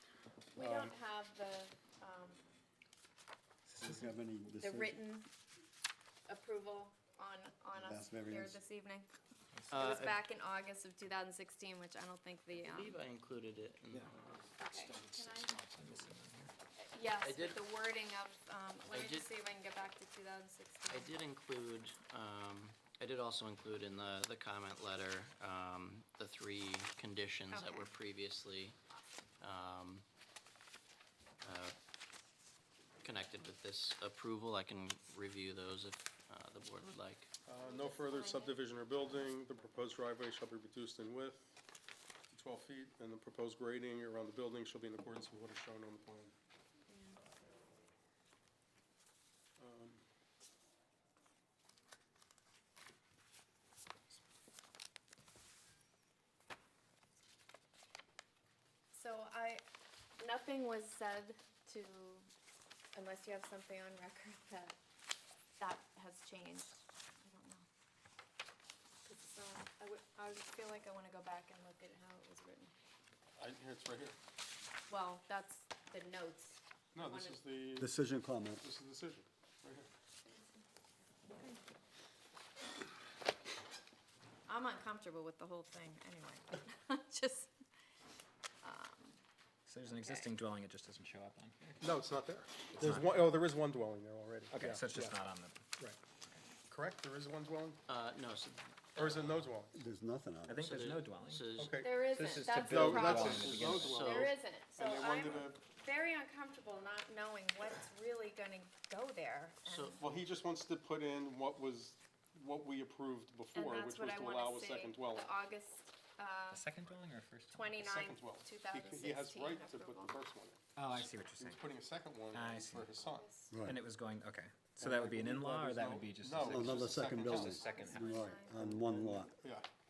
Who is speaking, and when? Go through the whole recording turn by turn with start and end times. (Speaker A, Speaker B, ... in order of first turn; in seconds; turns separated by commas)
Speaker A: 0.5-2.4, Speaker B: 0.6-0.9, Speaker C: 3.7-4.0, Speaker D: 3.8-5.0, Speaker A: 4.5-5.3, Speaker A: 6.3-9.1, Speaker D: 7.7-8.6, Speaker C: 9.5-9.8, Speaker E: 9.7-10.2, Speaker A: 9.7-13.0, Speaker E: 12.5-15.1, Speaker A: 14.6-15.6, Speaker C: 15.6-16.5, Speaker E: 15.7-16.0, Speaker A: 16.8-21.1, Speaker E: 17.2-17.6, Speaker E: 18.9-19.3, Speaker E: 20.9-28.8, Speaker A: 27.5-27.9, Speaker E: 29.4-30.0, Speaker E: 31.4-31.8, Speaker E: 33.0-37.3, Speaker B: 37.5-41.6, Speaker A: 37.6-38.6, Speaker B: 42.3-46.4, Speaker A: 46.9-47.2, Speaker B: 49.6-50.0, Speaker A: 58.9-59.6, Speaker A: 60.2-62.3, Speaker A: 63.0-64.8, Speaker A: 65.6-67.6, Speaker A: 69.0-72.7, Speaker B: 73.4-74.1, Speaker A: 74.9-77.4, Speaker B: 76.9-77.9, Speaker D: 77.8-78.6, Speaker B: 78.6-79.9, Speaker A: 80.3-80.7, Speaker A: 81.2-81.6, Speaker A: 84.5-87.5, Speaker A: 88.6-89.2, Speaker C: 89.7-91.9, Speaker A: 89.9-90.3, Speaker B: 91.8-95.2, Speaker C: 92.8-93.3, Speaker C: 94.5-95.7, Speaker B: 96.7-97.8, Speaker E: 97.9-99.2, Speaker B: 99.0-99.8, Speaker D: 99.7-100.6, Speaker C: 100.5-101.5, Speaker E: 100.6-101.9, Speaker B: 101.6-102.1, Speaker A: 101.8-110.0, Speaker C: 102.1-104.1, Speaker B: 102.6-105.6, Speaker E: 103.8-104.3, Speaker E: 109.7-110.0, Speaker B: 110.0-115.3, Speaker A: 113.5-116.7, Speaker C: 116.5-117.8, Speaker A: 117.5-120.2, Speaker B: 117.8-123.3, Speaker C: 120.8-121.6, Speaker C: 122.3-123.0, Speaker A: 123.0-123.6, Speaker D: 123.5-123.8, Speaker C: 123.6-128.3, Speaker B: 124.8-127.8, Speaker D: 126.5-129.3, Speaker A: 127.4-128.5, Speaker B: 128.3-129.7